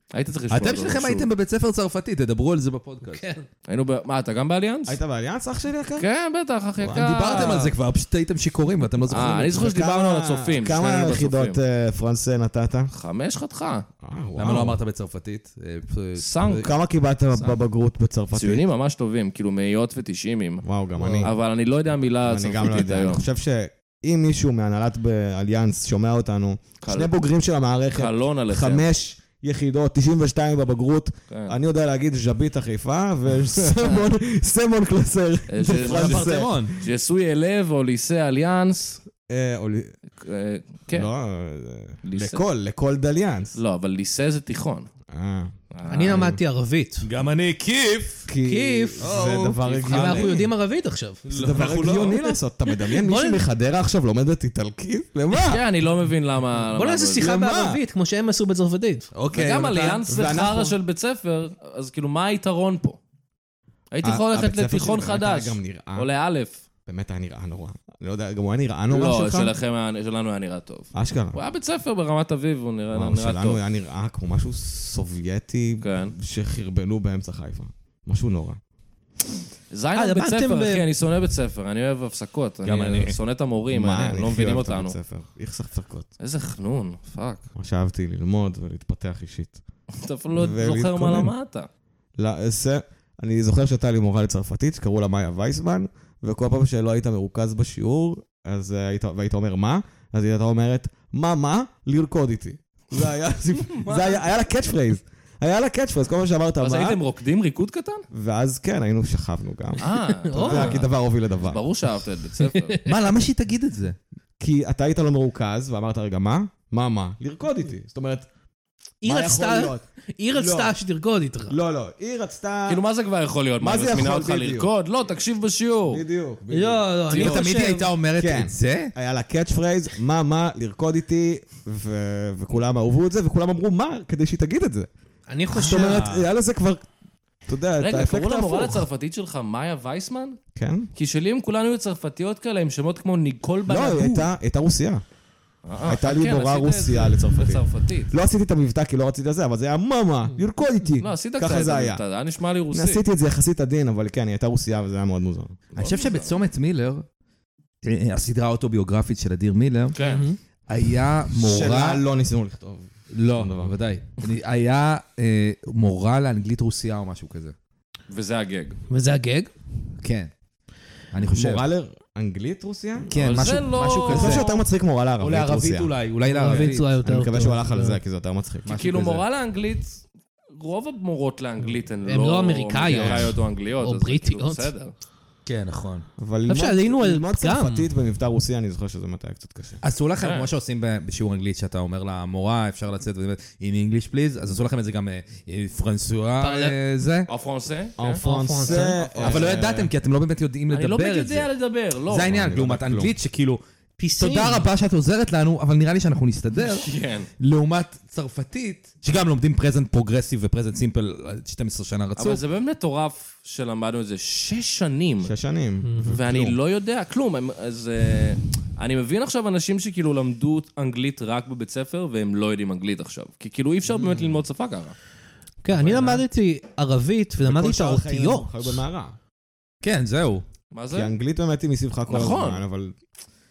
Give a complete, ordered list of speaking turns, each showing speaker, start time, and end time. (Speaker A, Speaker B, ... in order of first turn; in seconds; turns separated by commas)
Speaker A: 0.1-1.3, Speaker B: 0.5-3.3, Speaker C: 3.0-3.5, Speaker A: 3.7-5.0, Speaker D: 4.9-6.1, Speaker A: 6.0-7.7, Speaker D: 6.8-7.7, Speaker B: 6.9-9.6, Speaker A: 9.1-11.6, Speaker D: 9.5-12.9, Speaker A: 12.9-13.9, Speaker D: 14.0-14.8, Speaker B: 14.4-16.7, Speaker A: 16.1-16.7, Speaker D: 16.6-18.6, Speaker A: 18.3-23.2, Speaker D: 20.6-21.3, Speaker D: 22.2-36.8, Speaker A: 26.8-27.2, Speaker A: 27.9-28.9, Speaker A: 31.3-31.6, Speaker A: 33.6-34.0, Speaker A: 35.5-39.0, Speaker B: 35.7-36.7, Speaker D: 39.3-40.0, Speaker A: 40.2-41.1, Speaker D: 40.9-43.6, Speaker A: 42.0-42.5, Speaker A: 43.5-44.9, Speaker D: 45.1-46.4, Speaker A: 45.7-46.2, Speaker C: 45.9-47.1, Speaker B: 47.0-48.3, Speaker D: 48.3-50.5, Speaker C: 48.5-49.1, Speaker B: 49.0-50.3, Speaker C: 49.8-51.2, Speaker B: 51.3-52.2, Speaker D: 51.3-55.6, Speaker C: 52.9-53.4, Speaker A: 55.5-57.3, Speaker C: 56.7-59.1, Speaker D: 57.2-57.8, Speaker B: 59.1-60.0, Speaker A: 59.3-63.0, Speaker D: 60.1-60.7, Speaker A: 63.9-66.6, Speaker D: 64.0-66.1, Speaker D: 66.9-69.5, Speaker A: 68.9-73.6, Speaker D: 70.9-71.4, Speaker D: 72.9-78.6, Speaker A: 75.8-76.1, Speaker A: 79.7-85.0, Speaker C: 80.0-80.9, Speaker B: 82.6-83.2, Speaker D: 83.7-86.1, Speaker A: 86.2-87.5, Speaker D: 87.5-89.6, Speaker A: 90.0-91.7, Speaker D: 90.3-91.3, Speaker D: 92.2-107.0, Speaker A: 103.5-104.2, Speaker A: 106.6-108.0, Speaker D: 108.1-111.6, Speaker A: 109.8-112.8, Speaker C: 110.2-110.8, Speaker B: 112.8-114.0, Speaker D: 114.4-118.3, Speaker C: 119.0-121.5, Speaker D: 119.0-120.8, Speaker D: 121.5-122.8, Speaker A: 122.7-126.0, Speaker D: 123.6-124.7, Speaker D: 125.9-126.9, Speaker C: 126.5-127.9, Speaker B: 127.1-128.9, Speaker A: 127.1-127.5, Speaker D: 128.2-134.9, Speaker C: 135.3-136.2, Speaker D: 135.5-136.9, Speaker B: 135.6-136.2, Speaker D: 137.5-138.8, Speaker A: 137.8-140.4, Speaker D: 140.6-140.9, Speaker A: 140.9-144.3, Speaker D: 143.7-145.0, Speaker A: 145.7-148.1, Speaker D: 145.8-152.0, Speaker A: 151.0-153.0, Speaker D: 152.7-155.6, Speaker A: 155.7-156.3, Speaker B: 155.8-157.1, Speaker B: 157.8-159.9, Speaker A: 159.9-160.2, Speaker C: 160.0-160.4, Speaker B: 160.7-162.0, Speaker D: 161.3-163.8, Speaker B: 163.1-167.6, Speaker A: 168.1-168.8, Speaker C: 168.9-169.5, Speaker B: 170.0-170.3, Speaker B: 171.1-171.6, Speaker D: 171.2-173.1, Speaker B: 173.1-174.5, Speaker A: 173.1-174.6, Speaker D: 174.0-178.8, Speaker B: 175.2-177.0, Speaker C: 176.3-178.0, Speaker B: 178.7-179.2, Speaker A: 178.7-184.9, Speaker C: 182.1-184.7, Speaker B: 185.4-186.1, Speaker D: 186.2-189.8, Speaker C: 186.5-187.9, Speaker B: 189.8-197.3, Speaker A: 190.2-190.5, Speaker C: 196.4-196.8, Speaker A: 197.3-198.2, Speaker D: 198.0-199.9, Speaker C: 198.2-199.2, Speaker A: 198.8-199.5, Speaker B: 199.2-201.5, Speaker A: 200.7-202.3, Speaker B: 202.1-203.6, Speaker D: 202.2-203.1, Speaker C: 204.0-204.7, Speaker B: 204.2-212.4, Speaker A: 206.6-207.3, Speaker A: 212.2-215.3, Speaker D: 215.2-216.6, Speaker C: 215.8-216.2, Speaker A: 216.1-224.9, Speaker C: 225.6-228.8, Speaker D: 225.8-226.2, Speaker D: 227.4-229.1, Speaker B: 229.8-230.4, Speaker A: 230.7-231.1, Speaker D: 230.9-232.9, Speaker A: 232.1-232.6